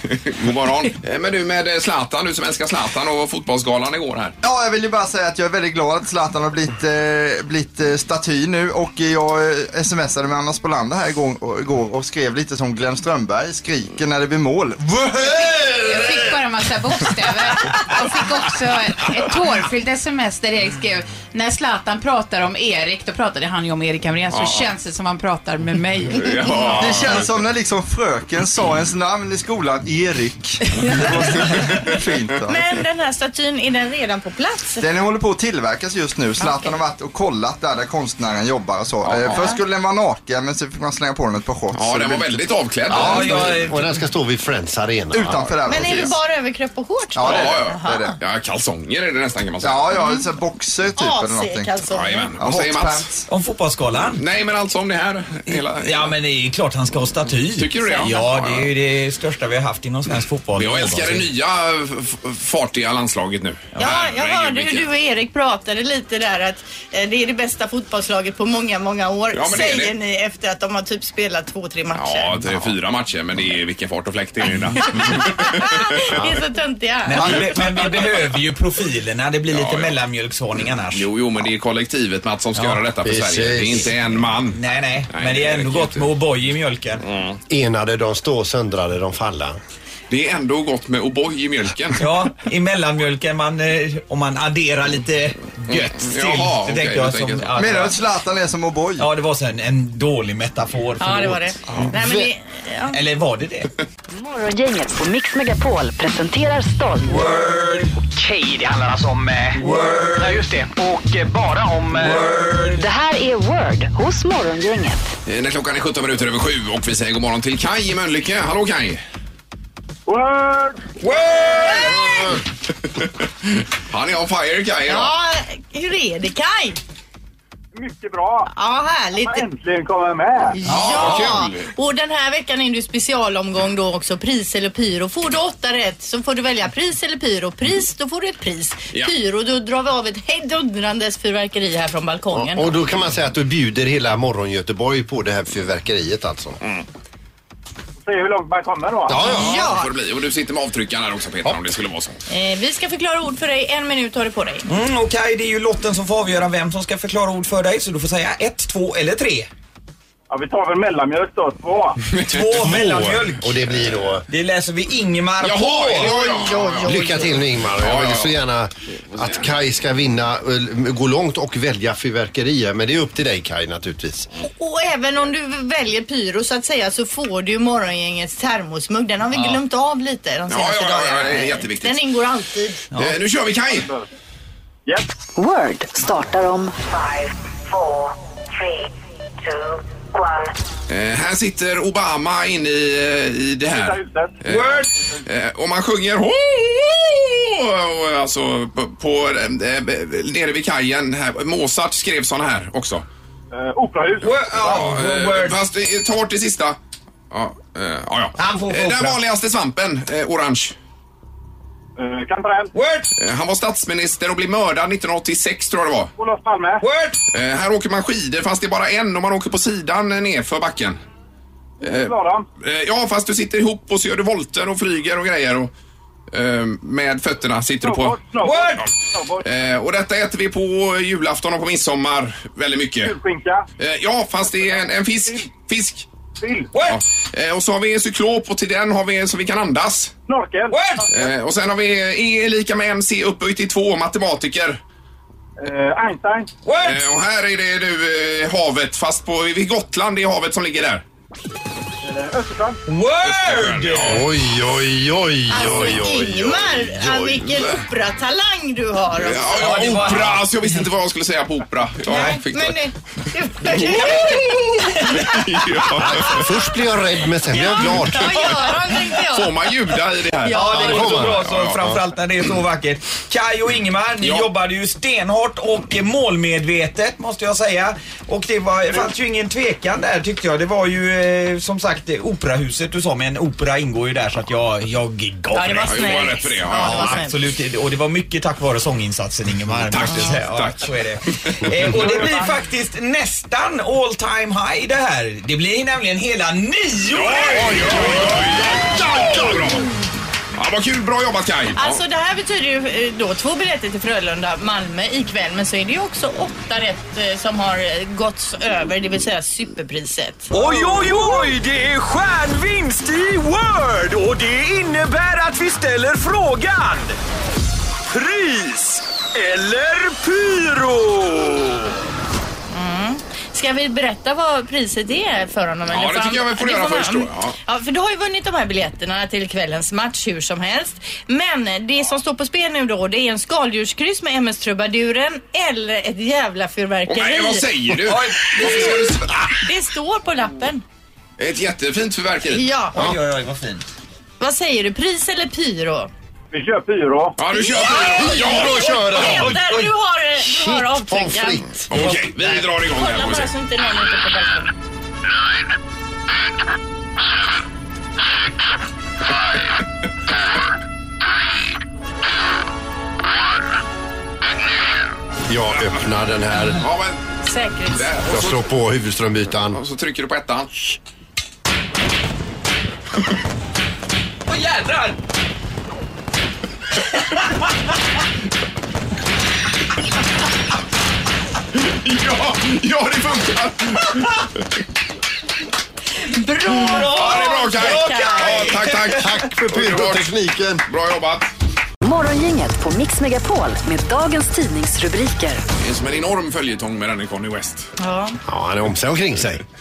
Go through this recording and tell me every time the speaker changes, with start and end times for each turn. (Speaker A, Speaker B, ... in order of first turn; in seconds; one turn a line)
Speaker A: 0.1-4.4
Speaker B: 4.4-16.1
Speaker C: 15.8-26.9
Speaker A: 24.3-24.7
Speaker A: 26.1-27.4
Speaker B: 26.8-32.6
Speaker D: 32.5-34.8
Speaker B: 34.8-43.4
Speaker D: 36.4-36.8
Speaker A: 39.0-39.5
Speaker D: 39.3-39.6
Speaker A: 41.7-43.5
Speaker E: 42.9-45.4
Speaker F: 42.9-43.9
Speaker B: 45.1-46.1
Speaker A: 45.2-46.1
Speaker D: 45.7-48.2
Speaker B: 47.1-48.2
Speaker A: 47.2-50.0
Speaker B: 49.6-51.8
Speaker D: 49.9-50.2
Speaker D: 51.0-52.3
Speaker A: 51.9-53.1
Speaker B: 52.4-53.3
Speaker F: 53.3-54.2
Speaker A: 54.1-56.1
Speaker F: 55.5-61.3
Speaker A: 57.6-58.7
Speaker D: 57.9-58.3
Speaker A: 60.5-64.9
Speaker D: 63.8-72.7
Speaker A: 69.3-69.9
Speaker A: 71.9-76.0
Speaker D: 75.0-77.6
Speaker E: 76.1-76.4
Speaker F: 77.1-81.1
Speaker A: 79.5-79.9
Speaker A: 80.9-84.6
Speaker F: 82.6-82.8
Speaker E: 83.0-83.9
Speaker F: 84.5-87.0
Speaker A: 85.1-86.1
Speaker A: 87.1-87.4
Speaker E: 87.5-89.6
Speaker A: 90.1-92.0
Speaker F: 92.0-98.0
Speaker A: 95.7-97.9
Speaker B: 97.6-99.1
Speaker F: 99.0-101.5
Speaker D: 101.0-103.0
Speaker F: 102.9-103.7
Speaker G: 104.1-107.2
Speaker F: 107.0-108.1
Speaker H: 108.2-109.2
Speaker F: 108.9-110.9
Speaker H: 110.5-111.8
Speaker F: 111.8-112.8
Speaker G: 112.7-115.0
Speaker A: 115.3-119.0
Speaker I: 120.1-120.9
Speaker F: 121.0-122.4
Speaker D: 121.6-121.9
Speaker A: 123.0-125.1
Speaker D: 124.9-126.8
Speaker I: 127.7-128.5
Speaker D: 128.5-129.5
Speaker I: 129.2-130.6
Speaker D: 130.5-142.8
Speaker A: 130.7-131.7
Speaker F: 130.9-131.3
Speaker E: 142.3-146.6
Speaker I: 148.0-149.2
Speaker E: 149.1-149.7
Speaker D: 149.2-149.9
Speaker A: 149.2-152.2
Speaker D: 152.3-154.7
Speaker F: 154.7-159.5
Speaker I: 160.3-162.0
Speaker F: 162.2-163.6
Speaker A: 162.2-162.7
Speaker E: 162.6-164.2
Speaker F: 164.3-166.2
Speaker A: 165.4-168.4
Speaker D: 166.0-167.4
Speaker E: 166.8-174.3
Speaker A: 169.1-169.5
Speaker D: 174.4-182.8
Speaker A: 180.5-182.0
Speaker A: 183.0-183.9
Speaker I: 183.7-184.0
Speaker G: 185.4-188.9
Speaker G: 189.4-190.5
Speaker A: 190.9-203.1
Speaker I: 193.7-194.4
Speaker F: 194.4-194.9
Speaker I: 203.5-204.8
Speaker F: 204.2-205.6
Speaker A: 204.5-206.8
Speaker A: 207.3-210.8
Speaker F: 208.4-209.2
Speaker I: 212.0-212.7
Speaker F: 212.7-213.1
Speaker A: 213.2-216.1
Speaker I: 216.2-216.9
Speaker F: 216.8-217.2
Speaker A: 217.3-221.0
Speaker A: 221.8-225.7
Speaker I: 221.8-222.5
Speaker A: 226.3-228.2
Speaker I: 227.8-229.4
Speaker F: 228.4-228.9
Speaker A: 229.4-233.2
Speaker I: 233.0-233.7
Speaker A: 233.8-236.1
Speaker I: 236.4-236.7
Speaker F: 236.7-237.0
Speaker A: 236.9-240.1
Speaker I: 240.3-241.1
Speaker F: 240.7-241.1
Speaker A: 241.1-244.8
Speaker I: 245.6-246.5
Speaker F: 246.7-247.0
Speaker A: 246.8-251.0
Speaker I: 252.0-252.8
Speaker F: 252.9-254.2
Speaker A: 253.2-254.2
Speaker E: 254.1-257.5
Speaker D: 255.5-259.7
Speaker A: 259.2-262.8
Speaker F: 259.5-260.5
Speaker D: 262.1-265.4
Speaker F: 262.1-262.4
Speaker A: 263.6-264.4
Speaker A: 265.1-266.5
Speaker E: 266.1-268.6
Speaker D: 267.5-269.5
Speaker A: 267.9-268.5
Speaker A: 269.2-271.9
Speaker D: 270.4-271.2
Speaker F: 270.4-299.6
Speaker E: 270.8-271.4
Speaker A: 274.2-274.5
Speaker D: 285.5-287.4
Speaker A: 285.8-287.2
Speaker A: 289.9-292.3
Speaker A: 297.1-299.9
Speaker A: 300.6-302.0
Speaker D: 301.8-310.6
Speaker F: 310.5-311.4
Speaker H: 310.5-317.2
Speaker H: 318.1-321.8
Speaker D: 322.7-337.7
Speaker A: 325.9-327.6
Speaker A: 337.1-339.4
Speaker F: 338.0-339.2
Speaker D: 338.5-340.8
Speaker A: 341.4-342.7
Speaker D: 342.5-343.0
Speaker F: 342.9-343.9
Speaker D: 344.4-346.1
Speaker I: 346.5-347.4
Speaker A: 347.4-349.5
Speaker D: 347.5-351.9
Speaker E: 348.3-349.6
Speaker F: 349.2-349.9
Speaker E: 350.4-352.2
Speaker A: 351.9-353.5
Speaker D: 352.9-354.7
Speaker E: 365.5-366.8
Speaker A: 366.6-367.2
Speaker D: 367.4-368.1
Speaker A: 367.9-368.6
Speaker E: 368.3-369.8
Speaker A: 369.7-371.0
Speaker F: 374.5-375.2
Speaker A: 381.7-384.5
Speaker D: 386.2-388.8
Speaker F: 386.8-389.3
Speaker A: 387.1-390.3
Speaker E: 389.2-390.8
Speaker A: 390.9-391.5
Speaker G: 392.0-395.6
Speaker A: 395.8-397.9
Speaker D: 398.0-398.4
Speaker E: 398.4-399.6